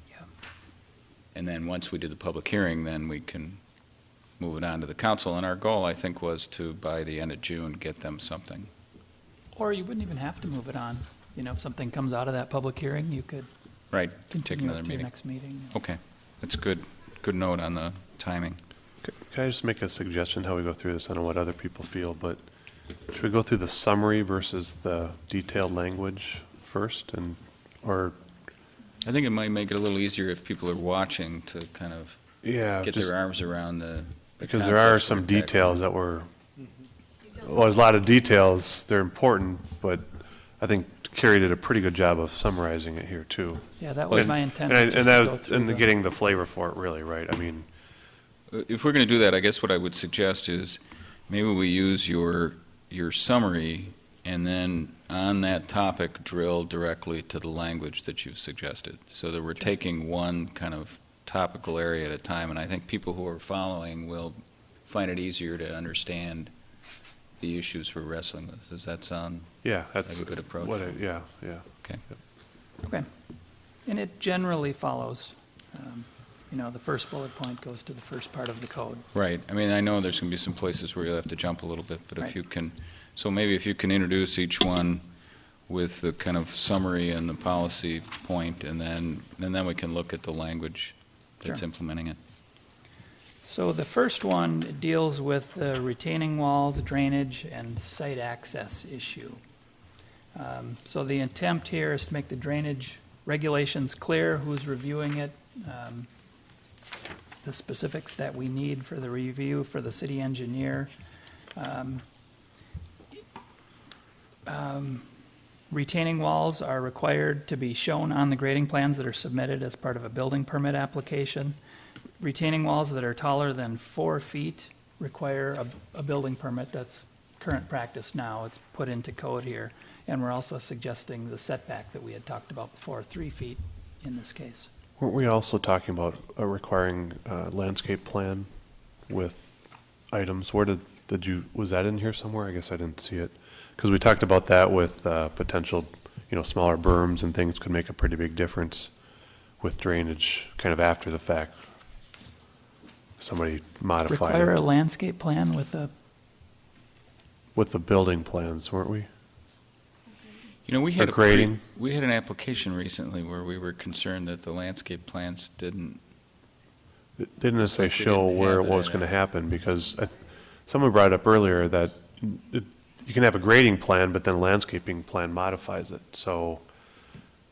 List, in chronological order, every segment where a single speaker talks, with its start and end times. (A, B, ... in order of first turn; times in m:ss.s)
0:01.3-0:03.6 A
0:04.4-0:08.7 A
0:09.5-0:13.5 B
0:13.9-0:15.1 A
0:14.3-0:15.8 B
0:15.7-0:18.6 A
0:19.0-0:22.4 C
0:23.1-0:28.2 C
0:29.0-0:32.2 A
0:32.4-0:33.1 C
0:32.7-0:35.8 A
0:34.4-0:36.3 C
0:37.3-0:47.7 C
0:43.8-0:45.9 B
0:48.5-1:06.5 A
1:07.4-1:11.0 A
1:09.6-1:11.7 C
1:13.8-1:19.1 B
1:19.1-1:25.0 A
1:25.7-1:32.2 A
1:33.4-1:39.4 B
1:40.4-1:46.1 B
1:47.4-1:50.9 B
1:51.6-1:52.0 B
1:54.5-1:55.1 B
1:55.7-2:01.6 B
2:02.2-2:14.7 B
2:15.0-2:18.5 C
2:19.1-2:19.6 C
2:20.1-2:28.9 C
2:29.6-2:31.6 C
2:33.2-2:34.6 C
2:34.1-2:35.9 B
2:37.6-2:39.1 C
2:40.6-2:46.0 A
2:41.0-2:41.6 C
2:47.2-2:56.6 C
2:47.6-2:49.1 A